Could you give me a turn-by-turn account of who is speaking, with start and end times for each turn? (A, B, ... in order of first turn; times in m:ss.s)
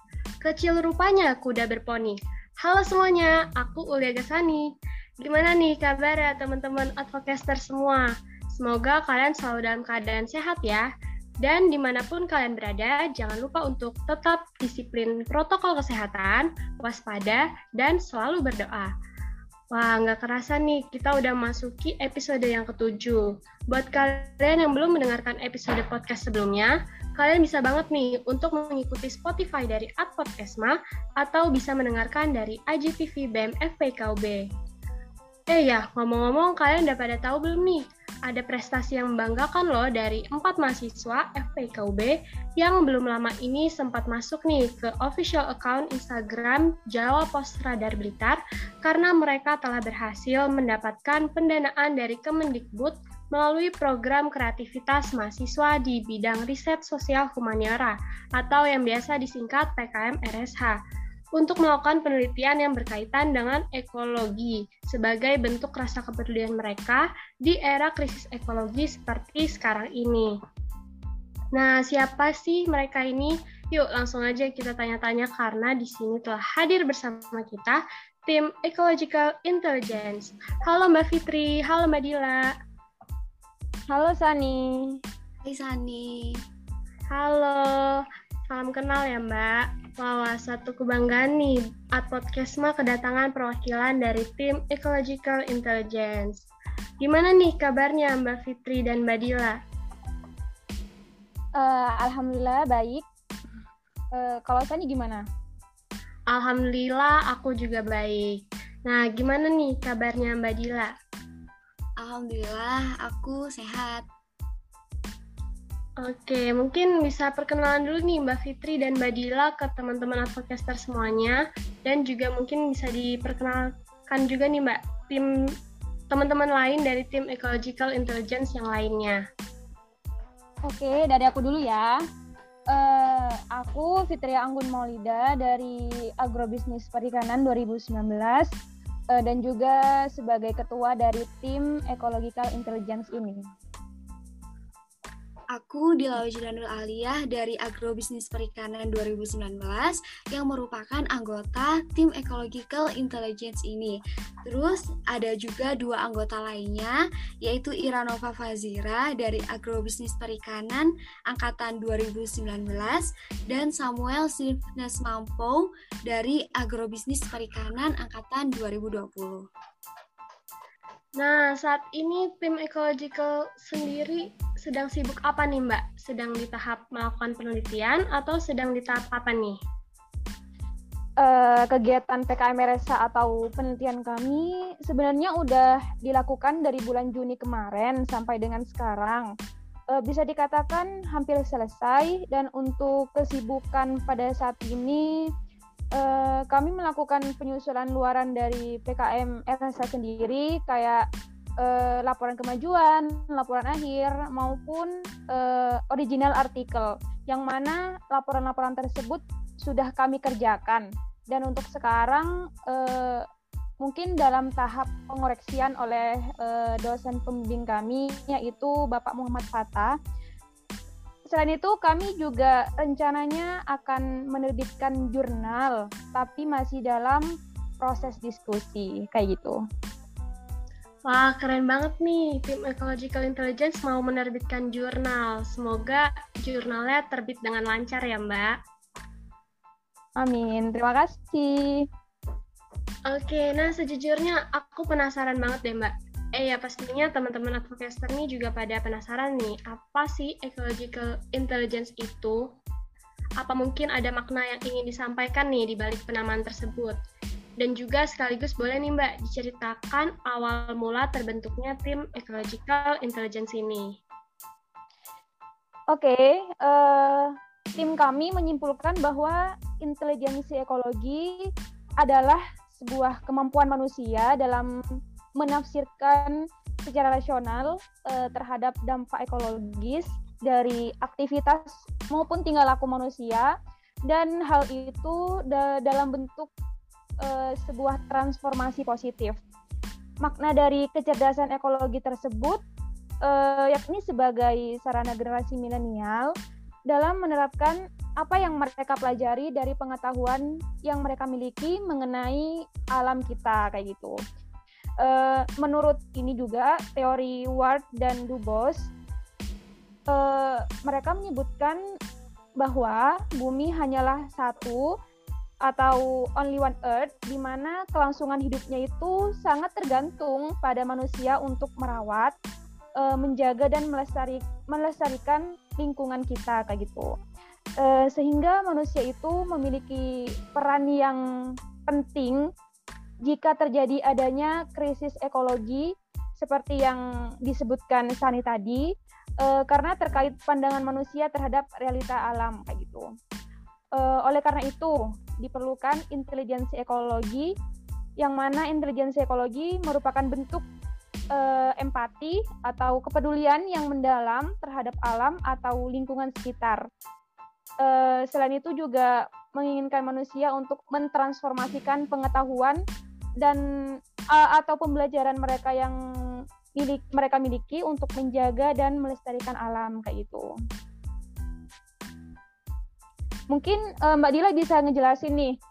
0:00.4-0:10.9 A
0:11.4-0:18.9 A
0:19.7-0:34.4 A
0:35.5-1:00.8 A
1:01.4-1:10.3 A
1:11.5-1:22.5 A
1:23.9-1:25.0 B
1:25.4-1:26.4 C
1:27.1-1:36.4 A
1:37.0-1:39.6 A
1:41.6-1:43.0 B
1:44.1-1:45.2 B
1:46.3-1:50.9 A
1:52.0-1:54.0 C
1:56.0-2:05.3 A
2:06.1-2:09.2 A
2:10.7-2:12.0 B
2:12.7-2:18.5 B
2:19.1-2:23.4 B
2:25.5-2:49.5 C
2:51.2-2:59.6 A
3:01.2-3:09.3 B
3:09.9-3:15.1 B
3:16.0-3:21.1 B
3:21.6-3:33.3 B
3:33.8-3:39.9 B
3:41.3-3:47.2 B
3:47.8-3:49.6 B
3:51.0-3:58.6 A
4:00.2-4:01.8 B
4:03.1-4:12.4 A
4:13.4-4:17.0 A
4:17.6-4:24.0 A
4:25.9-4:31.5 B
4:32.0-4:34.7 B
4:35.4-4:43.5 B
4:44.1-4:46.5 B
4:47.2-4:49.4 B
4:50.2-4:52.6 B
4:53.2-4:56.3 B
4:56.9-5:04.1 B
5:05.0-5:08.9 B
5:10.1-5:11.8 B
5:12.6-5:14.8 B
5:15.7-5:22.3 B
5:23.0-5:27.1 B
5:27.8-5:31.2 B
5:31.9-5:32.4 B
5:33.2-5:38.9 B
5:39.4-5:43.0 B
5:44.0-5:47.5 B
5:48.2-5:50.6 B
5:51.3-5:56.8 B
5:57.8-6:02.8 B
6:04.3-6:06.0 B
6:06.8-6:10.4 B
6:13.5-6:15.6 B